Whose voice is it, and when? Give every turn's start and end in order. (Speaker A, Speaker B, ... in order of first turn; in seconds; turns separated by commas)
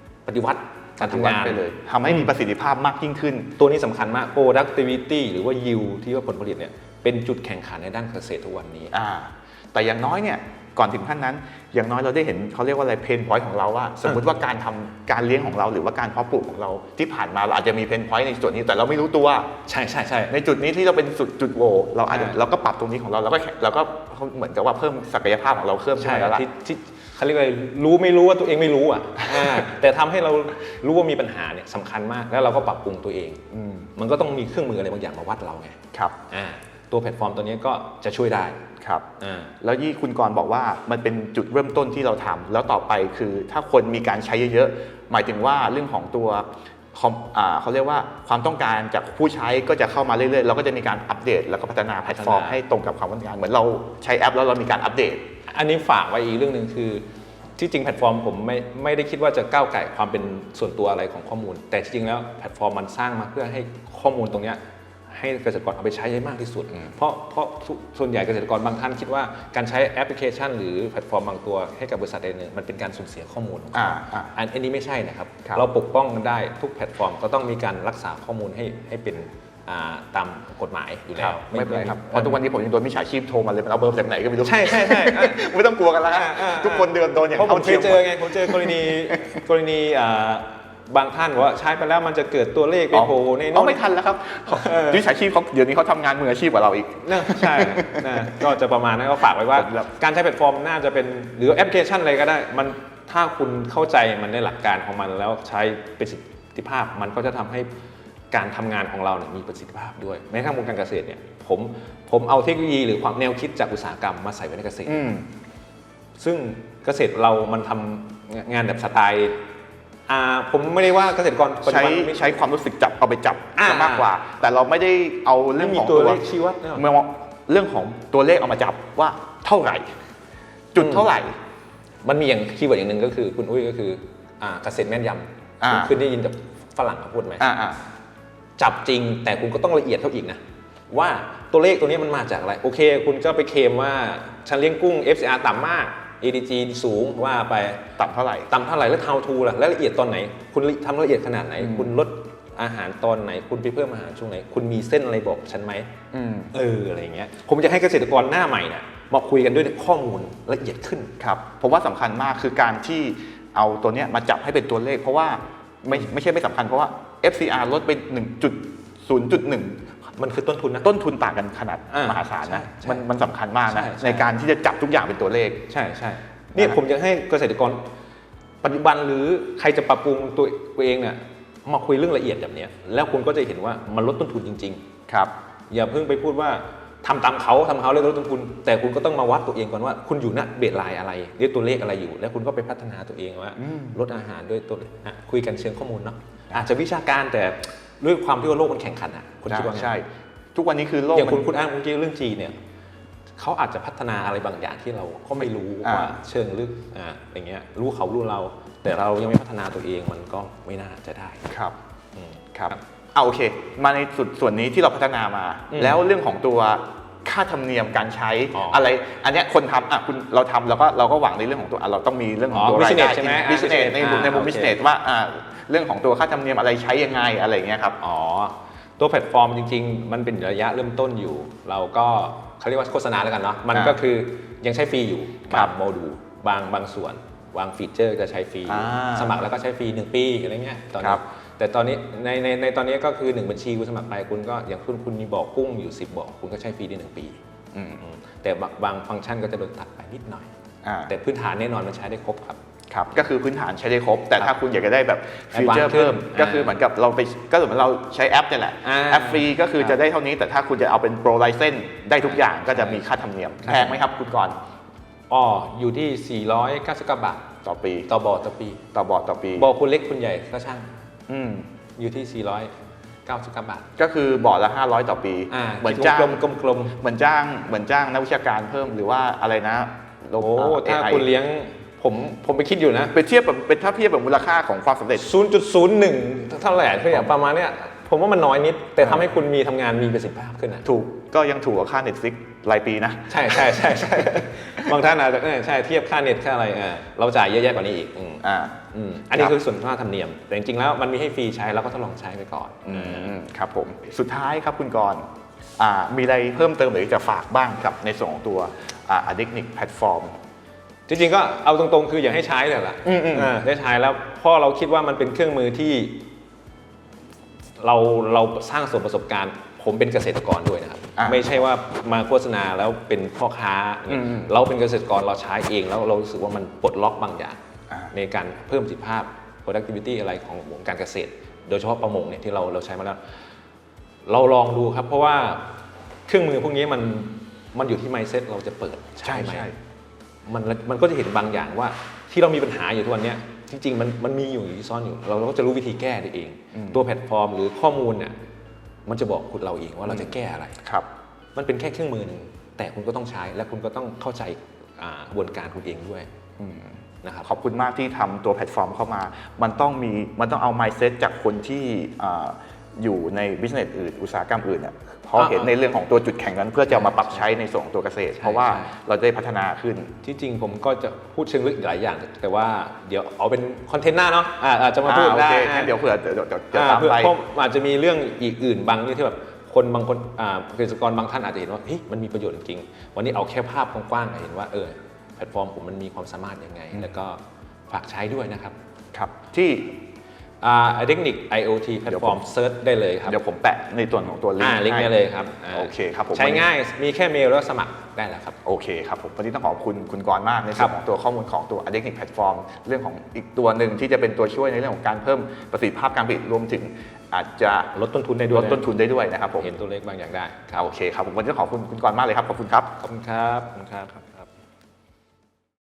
Speaker A: 0.2-2.3, Speaker B: 1.0-3.5, Speaker A: 3.6-8.9, Speaker B: 8.9-19.5, Speaker A: 19.7-20.4, Speaker B: 20.3-26.4, Speaker A: 22.1-22.4, Speaker A: 26.0-33.4, Speaker B: 29.4-29.6, Speaker B: 33.5-33.9, Speaker A: 34.0-38.6, Speaker B: 38.8-39.0, Speaker A: 39.2-39.5, Speaker B: 39.6-55.3, Speaker A: 52.1-52.6, Speaker A: 55.5-57.0, Speaker A: 57.6-82.4, Speaker B: 73.7-74.3, Speaker B: 81.2-89.4, Speaker A: 84.4-85.5, Speaker A: 86.0-93.8, Speaker B: 92.9-98.4, Speaker A: 94.5-95.0, Speaker A: 97.0-107.7, Speaker B: 99.5-99.9, Speaker A: 108.3-115.0, Speaker B: 114.9-115.3, Speaker A: 116.2-119.4, Speaker A: 120.1-122.3, Speaker B: 121.6-126.2, Speaker A: 123.5-124.1, Speaker A: 125.6-126.9, Speaker B: 126.7-129.9, Speaker B: 130.7-131.4, Speaker A: 130.8-131.1, Speaker A: 132.0-137.4, Speaker B: 135.6-135.9, Speaker B: 137.4-137.8, Speaker A: 138.6-147.9, Speaker B: 148.0-148.5, Speaker A: 148.5-155.9, Speaker B: 151.6-151.9, Speaker B: 156.1-156.5, Speaker A: 156.5-161.2, Speaker B: 161.2-169.8, Speaker A: 170.2-170.9, Speaker B: 170.8-175.6, Speaker A: 171.9-173.0, Speaker A: 173.7-174.3, Speaker A: 175.7-177.9, Speaker A: 178.6-184.8, Speaker B: 185.1-185.3, Speaker A: 185.7-199.9, Speaker B: 193.6-194.0, Speaker B: 199.5-201.5, Speaker A: 201.1-202.5, Speaker A: 203.4-211.5, Speaker B: 205.8-206.2, Speaker B: 211.5-211.7, Speaker A: 212.1-212.8, Speaker B: 212.5-228.0, Speaker A: 215.7-216.0, Speaker A: 218.5-218.8, Speaker A: 222.5-224.8, Speaker A: 228.0-247.4, Speaker B: 238.7-239.3, Speaker B: 247.7-248.0, Speaker A: 248.0-250.5, Speaker B: 250.8-251.1, Speaker A: 251.1-252.6, Speaker B: 252.9-264.6, Speaker A: 255.5-256.8, Speaker A: 258.8-260.0, Speaker A: 262.2-263.0, Speaker A: 263.6-264.0, Speaker A: 265.3-267.5, Speaker B: 267.6-268.1, Speaker A: 268.1-268.8, Speaker B: 268.9-269.7, Speaker A: 269.6-270.9, Speaker B: 271.3-271.7, Speaker A: 272.0-272.7, Speaker A: 273.2-273.9, Speaker B: 274.0-276.4, Speaker A: 275.5-277.0, Speaker B: 277.0-281.3, Speaker A: 280.4-283.1, Speaker B: 283.1-285.3, Speaker A: 285.2-290.9, Speaker B: 290.9-294.9, Speaker A: 293.3-303.4, Speaker B: 298.4-298.8, Speaker B: 302.9-310.4, Speaker A: 311.1-316.3, Speaker B: 313.0-313.5, Speaker A: 317.8-327.6, Speaker B: 321.2-321.6, Speaker B: 324.1-324.5, Speaker A: 328.1-333.2, Speaker A: 334.2-335.7, Speaker A: 336.3-339.7, Speaker B: 339.2-339.8, Speaker A: 340.4-348.4, Speaker B: 346.7-347.0, Speaker A: 349.0-350.8, Speaker B: 350.8-351.1, Speaker A: 351.5-356.3, Speaker B: 356.6-370.1, Speaker A: 357.2-357.5, Speaker A: 365.4-365.7, Speaker A: 366.9-367.4, Speaker A: 368.4-368.9, Speaker A: 370.2-375.9, Speaker B: 375.0-377.3, Speaker A: 376.7-388.8, Speaker B: 389.1-390.0, Speaker A: 390.6-393.4, Speaker B: 392.1-392.4, Speaker B: 393.3-395.1, Speaker A: 394.6-398.6, Speaker B: 395.7-396.7, Speaker B: 398.6-407.9, Speaker A: 407.9-408.9, Speaker B: 408.5-409.7, Speaker A: 409.6-410.9, Speaker B: 410.7-413.0, Speaker A: 413.0-414.5